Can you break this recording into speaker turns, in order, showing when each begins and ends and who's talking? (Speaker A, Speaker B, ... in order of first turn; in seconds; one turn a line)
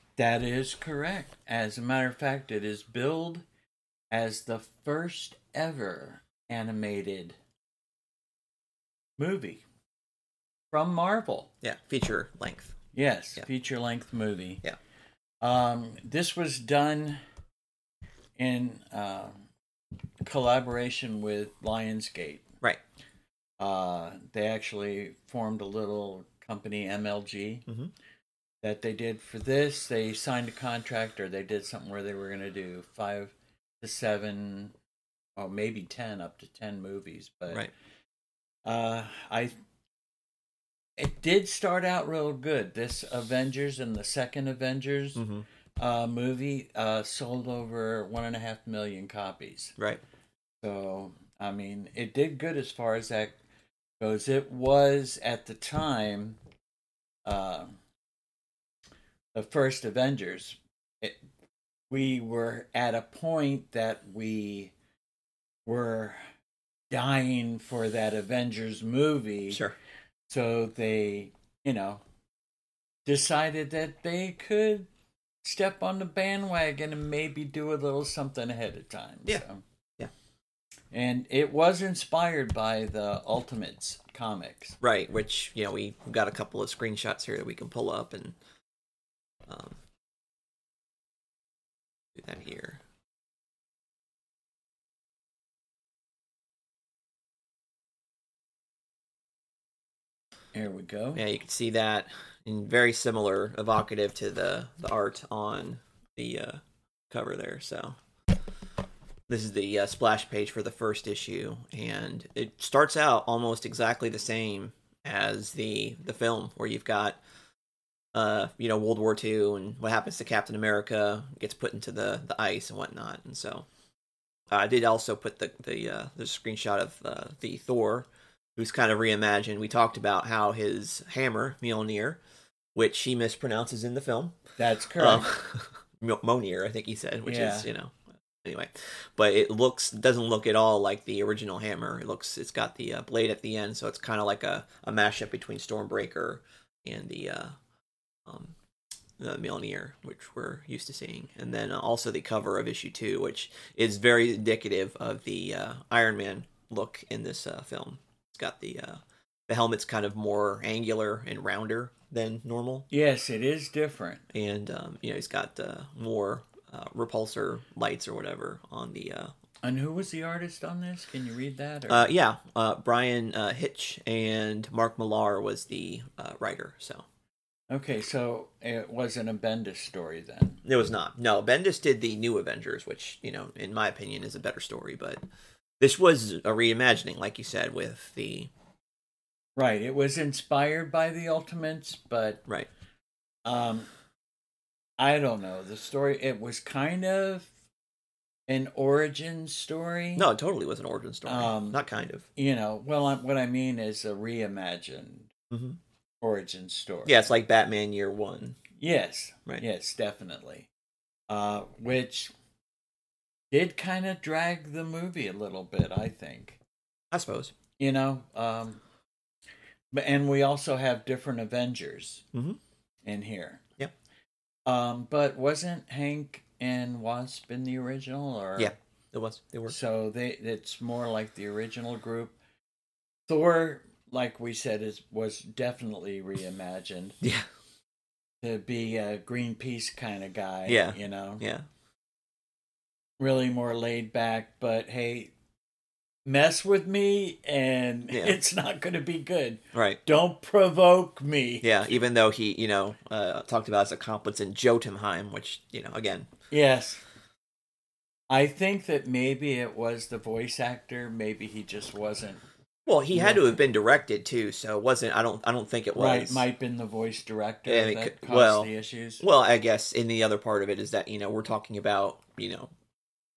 Speaker A: 0.2-3.4
Speaker A: 4.1-7.3
Speaker A: 9.2-9.6
Speaker A: 10.7-11.5
Speaker B: 11.6-12.8
Speaker A: 12.9-14.6
Speaker A: 15.4-17.2
Speaker A: 18.4-19.4
Speaker A: 20.3-22.5
Speaker A: 23.6-27.6
Speaker A: 28.6-34.7
Speaker A: 35.4-37.7
Speaker A: 38.7-39.5
Speaker A: 41.0-45.2
Speaker B: 45.2-45.5
Speaker A: 45.8-49.7
Speaker A: 50.6-53.4
Speaker A: 54.0-56.4
Speaker A: 57.3-57.7
Speaker A: 59.4-61.2
Speaker A: 61.9-64.7
Speaker A: 65.7-66.2
Speaker A: 66.9-69.6
Speaker B: 69.5-69.8
Speaker A: 70.3-72.0
Speaker A: 73.1-74.9
Speaker A: 75.4-79.6
Speaker A: 80.9-84.8
Speaker B: 84.8-88.4
Speaker B: 89.5-89.8
Speaker B: 92.2-92.8
Speaker A: 100.5-101.2
Speaker B: 101.2-108.0
Speaker B: 109.3-117.2
Speaker B: 118.1-123.7
Speaker B: 124.5-132.2
Speaker B: 132.8-134.4
Speaker A: 134.6-135.3
Speaker B: 135.0-147.6
Speaker A: 137.2-137.7
Speaker B: 148.3-148.5
Speaker B: 149.2-162.9
Speaker A: 162.9-164.2
Speaker B: 164.3-169.3
Speaker A: 169.6-172.1
Speaker B: 171.9-177.1
Speaker A: 177.7-180.6
Speaker B: 180.7-185.2
Speaker B: 185.8-188.5
Speaker A: 189.6-192.4
Speaker A: 193.4-193.9
Speaker A: 195.0-197.5
Speaker A: 198.5-200.3
Speaker B: 200.2-202.3
Speaker A: 201.3-201.8
Speaker A: 202.4-205.3
Speaker B: 205.5-205.8
Speaker A: 206.2-207.2
Speaker B: 207.1-208.6
Speaker A: 208.8-210.7
Speaker A: 211.3-212.3
Speaker A: 213.5-216.6
Speaker B: 217.1-217.6
Speaker A: 217.8-218.8
Speaker A: 219.9-222.2
Speaker B: 222.3-222.6
Speaker A: 223.1-223.6
Speaker A: 224.7-228.7
Speaker B: 228.6-229.8
Speaker A: 229.7-232.4
Speaker A: 233.3-237.2
Speaker B: 237.2-237.5
Speaker A: 238.4-241.4
Speaker B: 240.7-241.7
Speaker A: 243.2-245.3
Speaker A: 246.3-251.8
Speaker B: 248.1-248.4
Speaker B: 249.7-250.0
Speaker B: 251.6-256.3
Speaker A: 256.5-257.0
Speaker A: 258.3-262.4
Speaker B: 262.9-266.5
Speaker A: 263.1-263.5
Speaker A: 265.9-269.2
Speaker B: 267.7-272.7